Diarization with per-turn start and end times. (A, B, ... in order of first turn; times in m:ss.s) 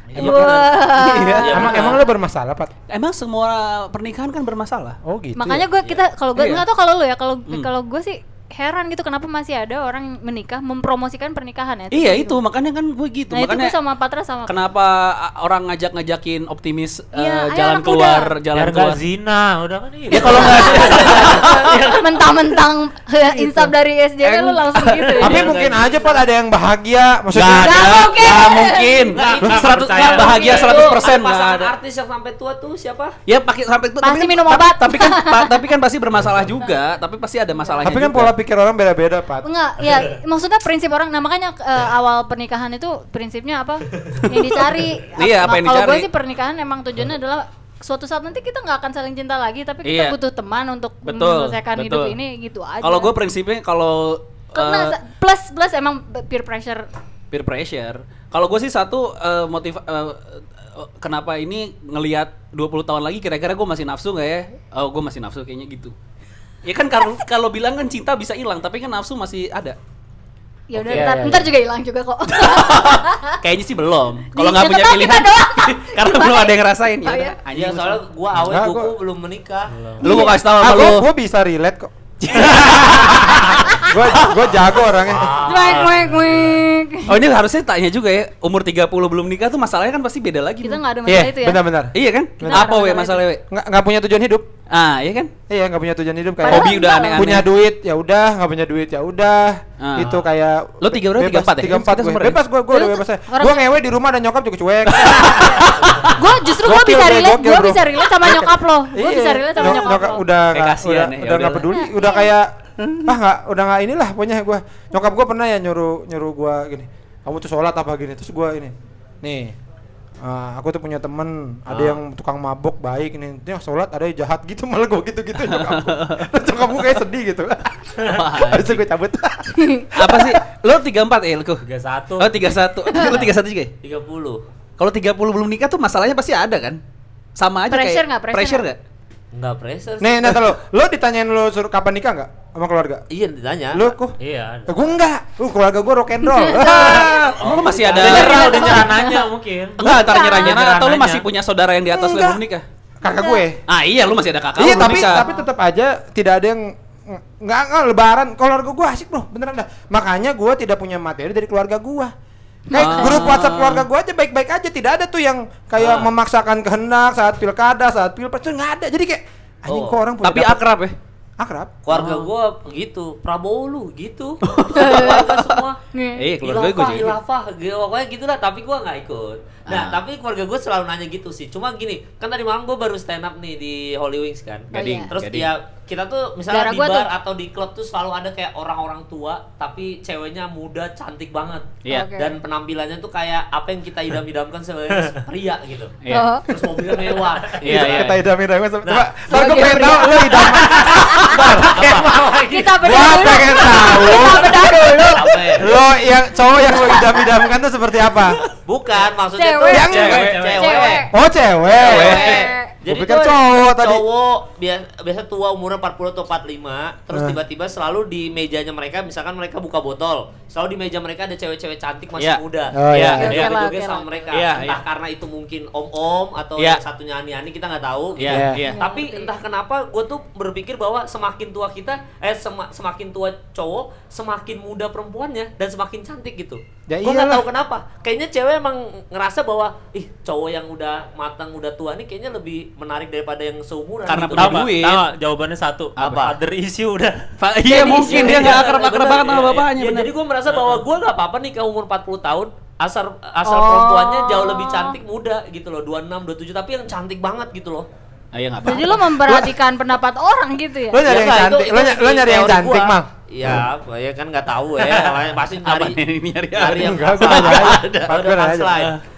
0:00.1-0:01.4 A
0:00.2-0:01.9 B
0:00.2-0:00.6 C
0:00.9-0:02.7 D
0:01.4-0:02.0 C
0:02.9-0:05.0 A
0:05.0-0:05.7 D
0:05.4-0:12.4 B
0:06.4-0:06.6 A
0:11.9-0:13.8 A
0:13.3-0:14.5 B
0:14.5-0:19.0 A
0:17.1-0:18.4 B
0:18.5-0:21.5 E
0:20.1-0:22.0 A
0:20.3-0:25.5 B
0:20.4-0:21.8 C
0:23.4-0:25.2 A
0:25.2-0:26.2 C
0:25.2-0:28.2 D
0:27.3-0:31.7 A
0:27.5-0:29.2 B
0:29.1-0:33.2 C
0:29.2-0:30.9 E
0:30.5-0:31.0 B
0:33.3-0:38.3 A
0:34.0-0:35.7 B
0:37.8-0:39.5 D
0:39.4-0:53.1 B
0:45.2-0:46.1 A
0:49.8-0:50.2 A
0:51.0-0:52.2 A
0:52.8-0:55.0 A
0:54.6-0:56.9 B
0:57.3-1:06.0 A
1:06.6-1:09.8 A
1:10.7-1:13.4 B
1:10.8-1:11.5 A
1:12.3-1:18.0 A
1:14.3-1:17.4 B
1:17.5-1:19.7 C
1:18.5-1:18.9 D
1:19.7-1:20.1 E
1:20.0-1:21.1 A
1:20.0-1:20.4 B
1:20.5-1:25.4 D
1:22.2-1:23.4 A
1:24.9-1:26.1 C
1:25.3-1:26.5 E
1:25.4-1:27.2 B
1:27.1-1:30.8 A
1:30.6-1:31.6 B
1:31.1-1:32.7 D
1:31.9-1:33.4 A
1:32.4-1:33.3 B
1:33.5-1:34.5 D
1:34.7-1:35.3 A
1:35.5-1:52.5 D
1:36.4-1:37.4 B
1:36.5-1:37.5 A
1:39.8-1:40.2 A
1:40.8-1:42.4 A
1:42.7-1:43.6 B
1:44.9-1:46.0 A
1:46.1-1:50.2 B
1:49.6-1:49.9 A
1:50.5-1:51.7 A
1:51.7-1:52.3 B
1:52.8-1:53.1 A
1:53.0-1:59.6 D
2:00.2-2:10.4 D
2:05.4-2:06.3 A
2:08.1-2:08.8 A
2:09.6-2:09.9 B
2:09.9-2:11.6 A
2:11.6-2:12.5 E
2:12.2-2:13.7 A
2:12.9-2:13.2 B
2:13.8-2:14.4 C
2:14.8-2:16.8 A
2:17.4-2:18.8 A
2:17.7-2:18.7 B
2:19.3-2:20.4 C
2:20.0-2:23.0 D
2:23.1-2:24.0 C
2:23.7-2:24.2 D
2:24.2-2:24.9 E
2:24.7-2:27.2 D
2:26.3-2:27.0 B
2:26.6-2:28.8 A
2:27.4-2:28.8 C
2:28.0-2:31.2 E
2:28.0-2:28.9 D
2:28.3-2:29.3 B
2:29.8-2:32.6 A
2:30.0-2:30.6 B
2:30.4-2:31.0 D
2:31.9-2:32.4 D
2:33.0-2:33.6 D
2:33.1-2:33.4 B
2:33.7-2:35.3 A
2:34.6-2:42.1 D
2:34.9-2:35.5 B
2:42.7-2:43.3 B
2:42.7-2:50.6 D
2:42.7-2:43.9 A
2:45.8-2:46.1 C
2:49.7-2:50.0 C
2:50.2-2:51.0 A
2:51.4-2:51.7 D
2:51.8-2:55.8 C
2:51.9-2:52.3 A
2:54.4-2:55.6 A
2:54.8-2:55.3 B
2:55.9-2:56.2 B
2:56.2-2:57.2 A
2:56.4-3:18.1 C
2:59.7-3:00.0 A
3:04.7-3:05.1 B
3:04.7-3:05.5 A
3:06.5-3:07.1 B
3:11.8-3:12.1 A
3:11.9-3:12.4 B
3:16.0-3:16.3 A
3:16.1-3:16.5 B
3:16.9-3:17.5 E
3:17.6-3:18.2 A
3:17.6-3:22.1 D
3:18.8-3:19.2 C
3:19.3-3:21.4 B
3:20.5-3:23.3 E
3:20.8-3:22.2 C
3:22.4-3:25.6 B
3:22.8-3:28.4 D
3:24.1-3:25.7 C
3:26.5-3:27.3 B
3:28.6-3:31.1 C
3:29.4-3:30.0 B
3:29.7-3:30.3 D
3:29.9-3:31.0 E
3:29.9-3:30.5 A
3:30.6-3:31.1 B
3:31.1-3:34.0 D
3:31.7-4:04.7 C
3:31.8-3:32.5 A
3:31.9-3:32.8 B
3:37.1-3:37.4 D
3:42.2-3:43.5 A
3:42.7-3:43.5 D
3:43.2-3:44.1 B
3:44.3-3:44.8 A
3:48.2-3:48.8 A
3:48.3-3:48.6 D
3:48.6-3:49.3 B
3:56.9-3:57.4 D
4:04.1-4:05.0 A
4:04.3-4:07.3 E
4:06.0-4:06.4 C
4:06.0-4:06.3 A
4:07.4-4:10.1 A
4:07.7-4:08.5 B
4:07.8-4:17.9 C
4:08.1-4:08.6 E
4:10.5-4:10.8 E
4:13.4-4:15.0 B
4:18.3-4:19.1 A
4:18.6-4:21.1 B
4:19.2-4:19.5 D
4:20.9-4:23.6 D
4:21.0-4:26.0 C
4:25.6-4:28.1 A
4:26.6-4:29.0 C
4:26.7-4:28.8 D